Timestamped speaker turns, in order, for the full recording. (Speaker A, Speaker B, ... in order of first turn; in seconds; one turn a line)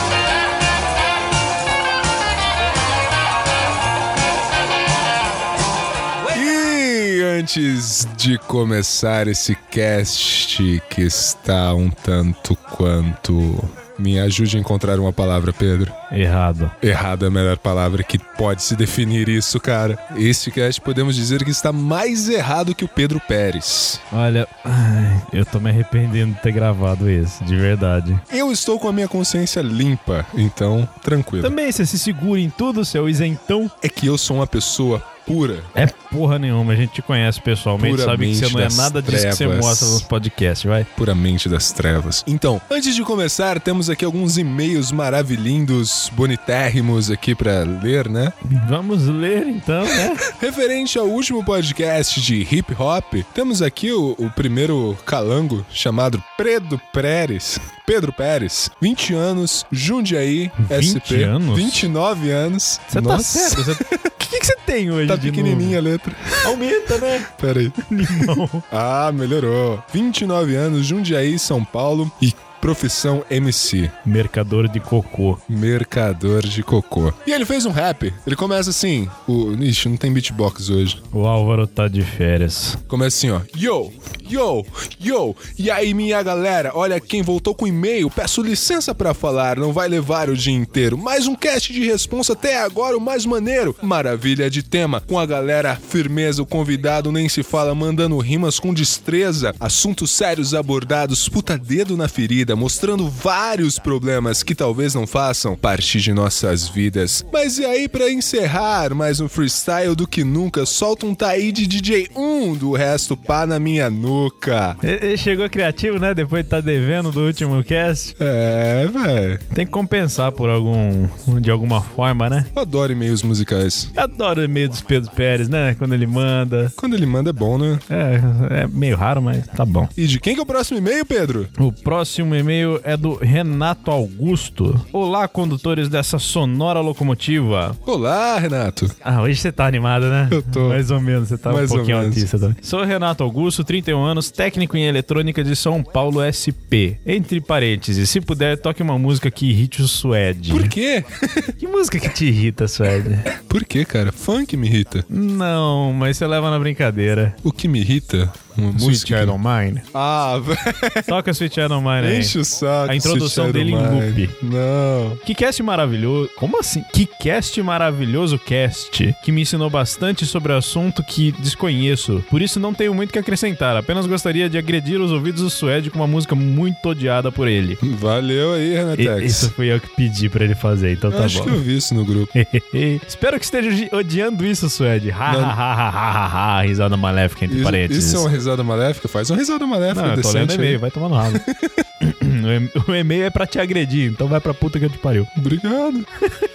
Speaker A: 6.3-15.9
Speaker B: 16.1-16.7
Speaker A: 16.8-24.0
Speaker B: 24.1-28.2
Speaker A: 28.3-31.5
Speaker B: 31.4-33.7
Speaker A: 33.8-35.7
Speaker B: 35.8-40.9
Speaker A: 37.8-40.0
Speaker A: 41.0-48.3
Speaker B: 48.5-50.2
Speaker A: 50.0-64.1
Speaker B: 60.6-61.9
Speaker B: 62.9-65.8
Speaker A: 65.0-73.9
Speaker B: 66.4-67.2
Speaker B: 67.9-68.6
Speaker B: 74.0-75.4
Speaker A: 75.5-81.0
Speaker B: 81.1-82.8
Speaker A: 82.9-114.8
Speaker B: 114.8-118.1
Speaker A: 118.2-119.4
Speaker B: 119.5-122.5
Speaker A: 122.5-123.9
Speaker B: 123.9-126.7
Speaker A: 126.8-127.8
Speaker B: 127.9-129.9
Speaker A: 129.9-131.5
Speaker B: 131.6-137.8
Speaker A: 137.8-138.9
Speaker B: 139.0-150.7
Speaker A: 140.3-140.8
Speaker A: 141.4-142.3
Speaker A: 150.5-151.5
Speaker B: 151.6-153.3
Speaker A: 153.3-155.1
Speaker B: 155.1-157.4
Speaker A: 157.4-159.4
Speaker B: 158.8-159.8
Speaker A: 159.9-161.2
Speaker B: 161.1-162.4
Speaker A: 162.0-165.2
Speaker B: 162.9-164.3
Speaker B: 165.2-177.8
Speaker A: 177.8-179.5
Speaker B: 179.0-181.6
Speaker A: 181.1-182.3
Speaker B: 182.3-188.3
Speaker A: 185.2-185.6
Speaker A: 187.5-191.8
Speaker B: 189.9-191.4
Speaker B: 192.0-195.3
Speaker A: 195.3-196.1